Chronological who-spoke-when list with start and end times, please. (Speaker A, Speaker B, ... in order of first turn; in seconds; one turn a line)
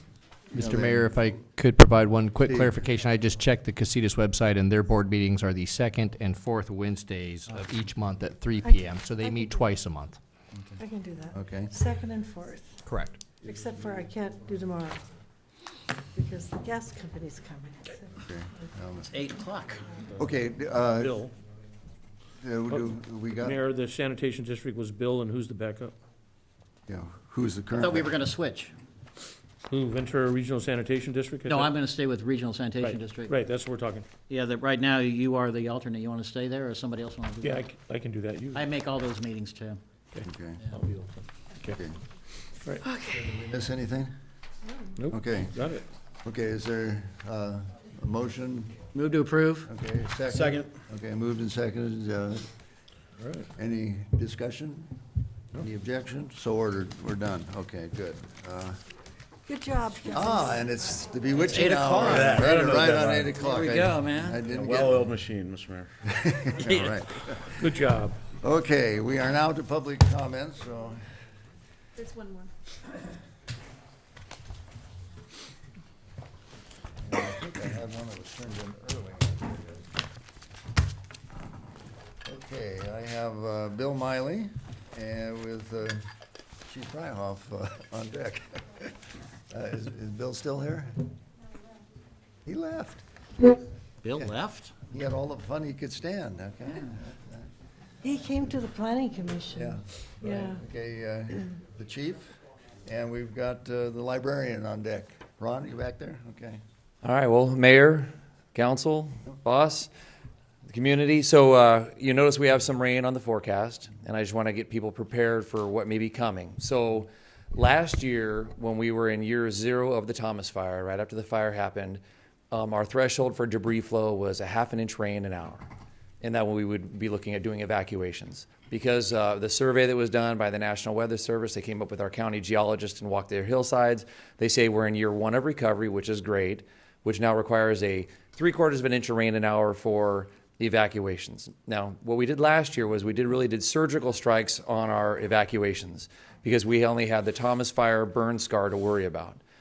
Speaker A: 0.5-10.2
Speaker B: 0.5-1.2
Speaker B: 2.4-2.8
Speaker C: 8.6-9.6
Speaker C: 10.8-12.8
Speaker B: 11.3-11.7
Speaker A: 12.8-13.2
Speaker C: 13.4-15.0
Speaker C: 16.1-18.1
Speaker B: 18.2-19.2
Speaker D: 19.1-20.0
Speaker B: 20.2-21.2
Speaker E: 20.9-21.3
Speaker B: 22.4-23.6
Speaker E: 22.7-25.9
Speaker B: 26.9-28.1
Speaker D: 27.7-28.7
Speaker E: 29.7-31.8
Speaker D: 31.5-33.4
Speaker E: 32.8-34.1
Speaker D: 34.3-37.7
Speaker E: 37.4-38.7
Speaker D: 38.5-39.8
Speaker E: 40.1-41.8
Speaker B: 40.2-40.6
Speaker B: 41.7-42.0
Speaker C: 42.8-43.3
Speaker B: 43.3-44.1
Speaker E: 45.0-45.8
Speaker B: 45.1-45.6
Speaker B: 46.2-48.8
Speaker D: 48.9-49.7
Speaker B: 49.6-52.5
Speaker F: 50.2-50.7
Speaker E: 53.2-53.5
Speaker B: 53.6-54.9
Speaker B: 55.6-58.8
Speaker C: 59.5-60.7
Speaker B: 60.1-65.1
Speaker D: 61.5-62.5
Speaker F: 61.9-63.4
Speaker D: 63.4-64.4
Speaker F: 64.3-65.9
Speaker B: 66.1-67.8
Speaker E: 67.6-68.2
Speaker B: 68.4-71.0
Speaker B: 77.0-79.8
Speaker B: 82.2-86.0
Speaker B: 86.7-88.9
Speaker B: 89.5-91.0
Speaker B: 92.4-93.0
Speaker D: 94.0-94.7
Speaker B: 94.9-97.5
Speaker C: 98.0-100.6
Speaker B: 99.5-106.6
Speaker G: 107.0-109.9
Speaker G: 110.7-125.7
Speaker G: 126.2-149.4